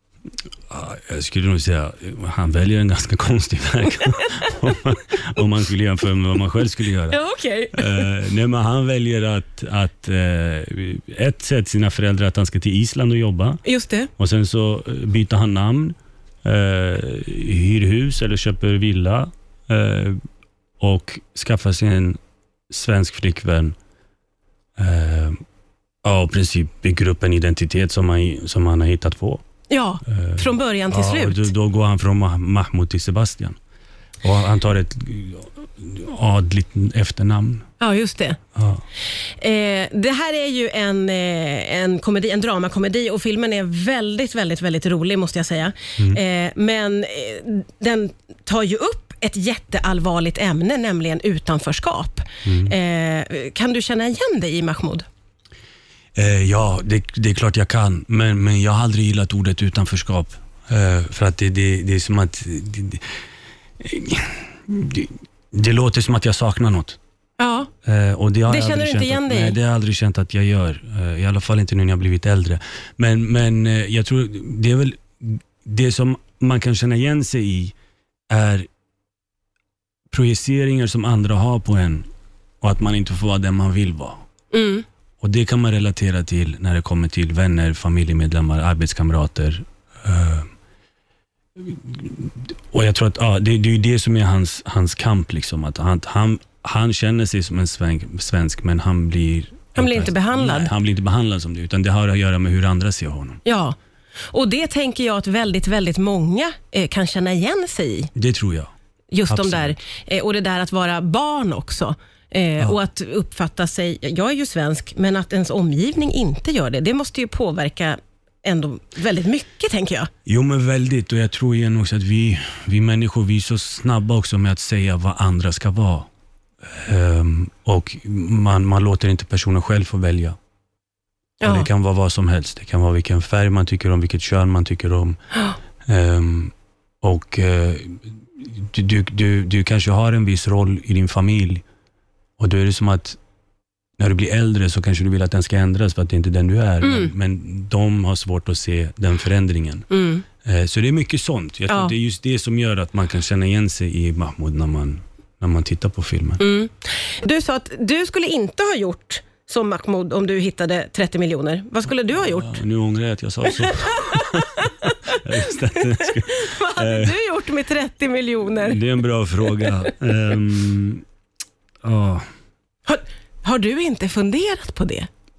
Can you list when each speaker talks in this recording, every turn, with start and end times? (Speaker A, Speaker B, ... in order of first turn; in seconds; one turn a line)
Speaker A: 0.7-7.2
Speaker B: 7.1-8.1
Speaker A: 7.7-13.6
Speaker B: 13.6-14.1
Speaker A: 14.2-20.2
Speaker A: 20.8-22.2
Speaker A: 22.7-23.7
Speaker A: 24.8-25.4
Speaker A: 26.0-29.4
Speaker B: 29.7-31.5
Speaker A: 30.1-33.6
Speaker A: 34.2-37.6
Speaker B: 37.8-38.4
Speaker A: 38.5-38.8
Speaker B: 39.4-55.0
Speaker A: 52.4-52.7
Speaker A: 56.1-63.0
Speaker A: 63.8-67.0
Speaker B: 67.4-67.7
Speaker A: 67.8-77.7
Speaker B: 68.5-69.6
Speaker A: 78.3-78.7
Speaker A: 80.1-82.0
Speaker A: 82.6-84.2
Speaker B: 84.5-84.8
Speaker A: 85.2-90.5
Speaker A: 91.6-103.4
Speaker B: 99.8-100.7
Speaker B: 103.4-103.8
Speaker B: 104.3-108.1
Speaker A: 108.1-108.7
Speaker B: 109.1-120.1
Speaker A: 109.3-109.8
Speaker A: 120.2-126.1
Speaker A: 126.6-130.4
Speaker B: 131.4-131.7
Speaker A: 131.4-135.2
Speaker A: 135.8-141.6
Speaker A: 142.4-143.2
Speaker A: 144.0-149.9
Speaker B: 146.8-147.1
Speaker B: 149.9-150.2
Speaker A: 150.4-156.4
Speaker B: 156.4-162.6
Speaker A: 162.1-167.2
Speaker B: 164.1-165.0
Speaker B: 166.2-168.8
Speaker A: 168.6-171.0
Speaker A: 171.8-172.2
Speaker B: 172.8-175.1